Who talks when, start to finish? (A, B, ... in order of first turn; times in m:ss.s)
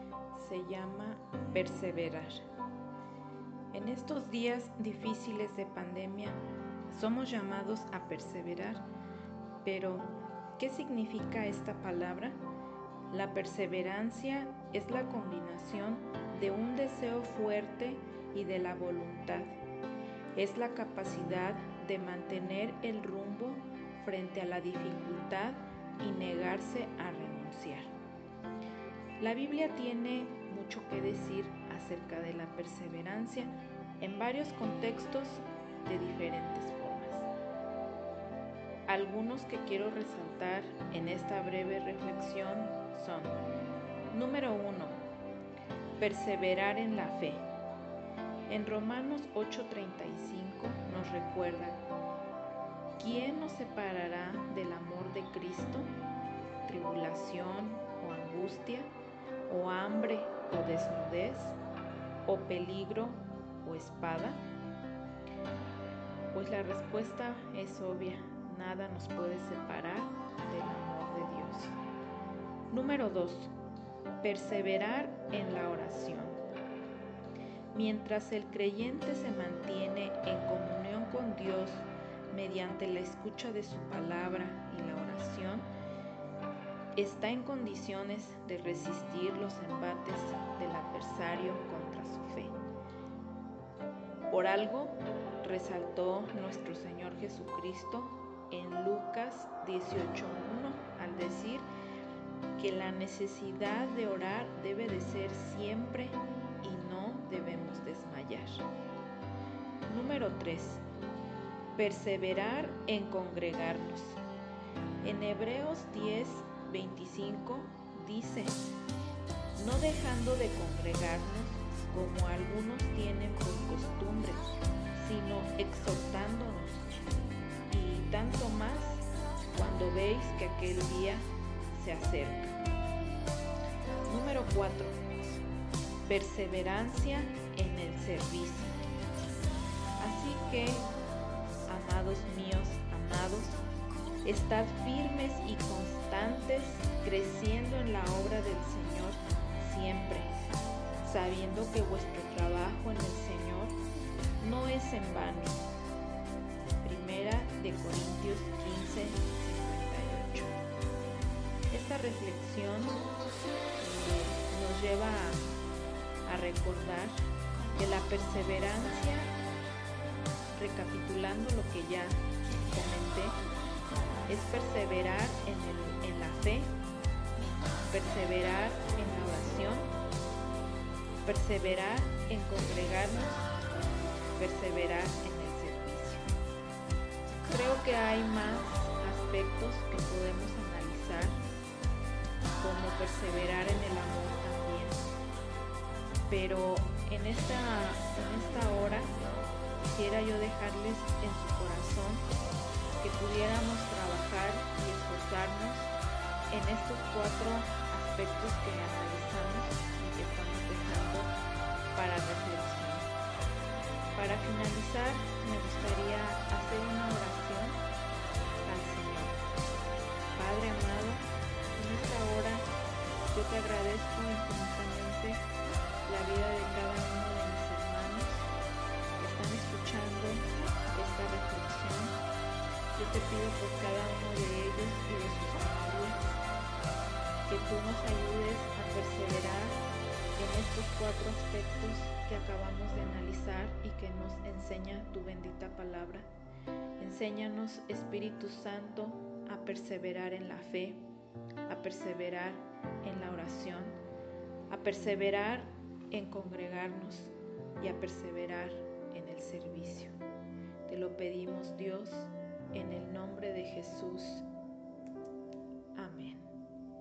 0:00.3-0:02.4 A
0:03.7-0:08.8 A
0:09.6-0:12.4 A
0:13.1-0:19.6 A
0:20.3-0:28.0 A
0:29.2-0:37.3 A
0:38.9-0:43.4 A
0:44.1-0:45.0 A
0:46.0-0:47.5 A
0:48.5-0:51.8 A
0:53.0-0:55.9 A
0:56.6-0:58.9 A
0:59.5-1:01.6 A
1:02.3-1:04.4 A
1:06.3-1:11.8 A
1:12.7-1:13.5 A
1:14.2-1:16.4 A
1:17.7-1:25.7 A
1:27.0-1:32.6 A
1:34.3-1:41.7 A
1:42.6-1:48.7 A
1:49.8-1:50.8 A
1:51.8-1:54.2 A
1:55.0-1:58.7 A
1:59.6-2:06.9 A
2:07.7-2:12.6 A
2:14.1-2:15.0 A
2:16.0-2:18.8 A
2:20.0-2:20.9 A
2:21.7-2:23.6 A
2:24.2-2:30.3 A
2:31.0-2:33.8 A
2:34.4-2:35.7 A
2:36.8-2:40.6 A
2:41.7-2:43.1 A
2:43.8-2:45.5 A
2:46.2-2:47.2 A
2:47.8-2:49.3 A
2:50.6-2:53.4 A
2:54.3-2:56.8 A
2:57.9-2:59.9 A
3:01.2-3:03.6 A
3:04.3-3:06.3 A
3:07.5-3:11.4 A
3:12.6-3:15.1 A
3:16.3-3:19.2 A
3:19.8-3:22.3 A
3:23.0-3:25.9 A
3:26.5-3:31.3 A
3:31.9-3:33.1 A
3:34.2-3:37.8 A
3:38.6-3:39.4 A
3:40.4-3:42.7 A
3:43.3-3:45.5 A
3:46.1-3:48.5 A
3:49.2-3:52.2 A
3:52.9-3:56.4 A
3:57.5-3:59.8 A
4:00.4-4:06.3 A
4:07.0-4:11.1 A
4:11.7-4:14.0 A
4:14.7-4:20.1 A
4:20.9-4:24.4 A
4:26.0-4:26.5 A